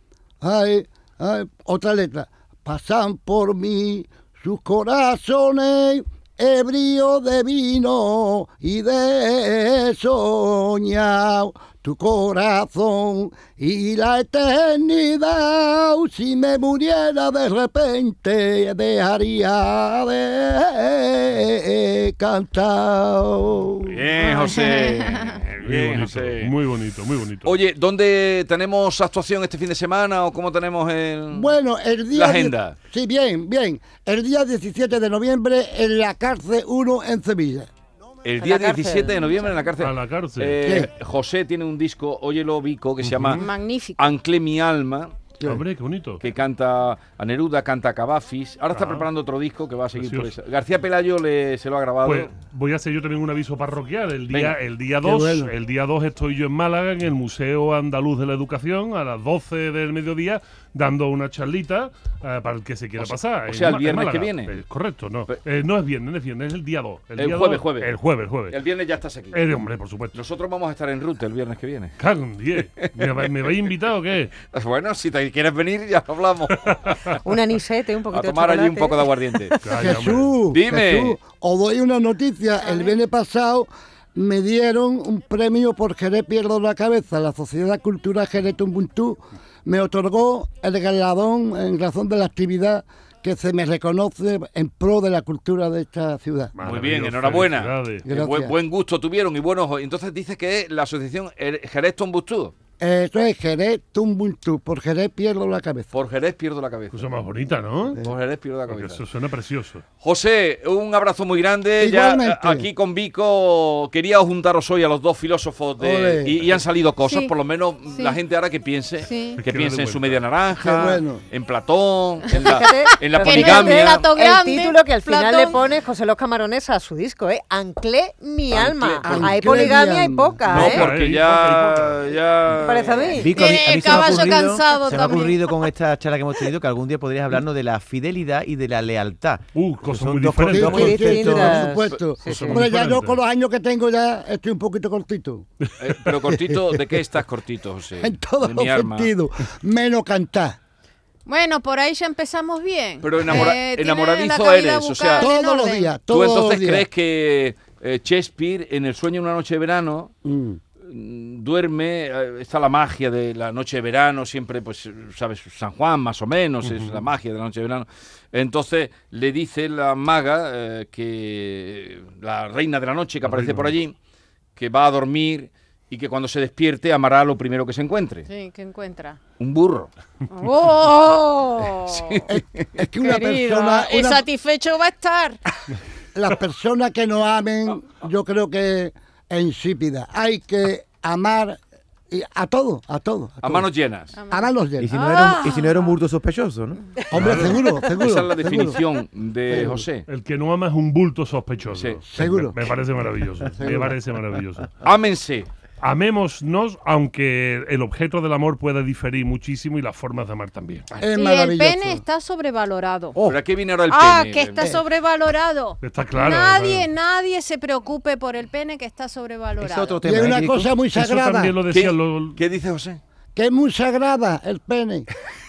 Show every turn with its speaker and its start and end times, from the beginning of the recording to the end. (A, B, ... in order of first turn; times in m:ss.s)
0:00.4-0:24.0 A
0:23.8-0:26.6 B
0:24.2-0:25.4 C
0:25.6-0:27.6 D
0:27.4-0:31.5 B
0:31.3-0:37.7 A
0:32.1-0:32.8 B
0:38.2-0:43.4 B
0:38.4-0:39.5 E
0:39.8-0:40.6 D
0:40.6-0:40.9 A
0:43.0-0:43.4 D
0:43.3-0:44.2 C
0:44.0-0:45.2 B
0:45.4-0:45.6 A
0:45.4-0:46.2 D
0:46.2-0:52.3 B
0:48.7-0:49.1 D
0:50.0-0:50.3 D
0:52.0-1:08.6 D
0:54.3-0:54.6 B
0:55.0-0:55.5 A
1:03.0-1:04.5 B
1:07.2-1:08.0 B
1:08.5-1:09.5 B
1:09.3-1:10.2 D
1:10.1-1:12.0 B
1:12.0-1:14.3 D
1:12.8-1:13.2 B
1:14.5-1:17.2 B
1:17.2-1:19.6 E
1:18.1-1:19.6 B
1:19.6-1:20.4 D
1:19.8-1:36.5 A
1:20.5-1:21.2 B
1:22.6-1:23.0 C
1:36.6-1:38.0 D
1:36.6-1:42.5 B
1:38.1-1:38.5 A
1:42.8-1:45.9 A
1:45.9-1:47.1 B
1:46.9-1:48.0 D
1:48.0-1:49.0 B
1:48.7-1:49.8 D
1:50.0-2:04.1 B
1:51.8-1:52.7 A
1:55.8-1:56.4 A
1:57.1-1:57.3 C
1:59.0-1:59.4 C
1:59.4-2:00.2 D
2:00.6-2:01.2 A
2:02.3-2:05.6 C
2:02.4-2:10.9 E
2:08.5-2:09.7 B
2:09.0-2:10.4 A
2:10.5-2:13.3 B
2:10.5-2:12.1 D
2:12.6-2:13.4 E
2:13.2-2:21.6 F
2:13.3-2:15.7 C
2:19.6-2:21.2 D
2:20.5-2:25.5 A
2:20.7-2:22.6 E
2:22.2-2:23.2 D
2:25.8-2:29.1 B
2:26.3-2:27.0 A
2:28.0-2:30.6 A
2:31.3-2:35.9 C
2:33.0-2:35.3 B
2:35.2-2:36.9 A
2:36.1-2:40.1 B
2:40.2-2:40.6 A
2:40.8-2:54.0 B
2:46.6-2:47.1 D
2:53.2-2:53.7 D
2:54.6-2:58.3 B
2:58.3-2:59.2 C
2:59.4-2:59.9 B
3:00.3-3:02.3 C
3:01.9-3:02.8 B
3:02.3-3:04.3 A
3:03.0-3:05.4 C
3:06.2-3:11.6 A
3:12.1-3:13.7 A
3:13.4-3:14.2 B
3:14.2-3:16.0 C
3:14.3-3:15.0 A
3:14.8-3:16.8 F
3:17.1-3:18.8 A
3:17.1-3:17.6 D
3:17.4-3:20.1 B
3:19.5-3:19.9 A
3:20.1-3:24.7 D
3:21.8-3:22.0 B
3:22.1-3:22.6 A
3:23.6-3:23.9 A
3:24.8-3:25.5 B
3:25.8-3:30.8 D
3:31.0-3:32.0 A
3:31.2-3:33.2 C
3:33.2-3:34.8 B
3:33.9-3:40.0 C
3:35.8-3:36.9 D
3:39.6-3:40.7 F
3:40.0-3:41.6 A
3:41.0-3:42.4 D
3:41.7-3:43.0 B
3:43.4-3:45.1 A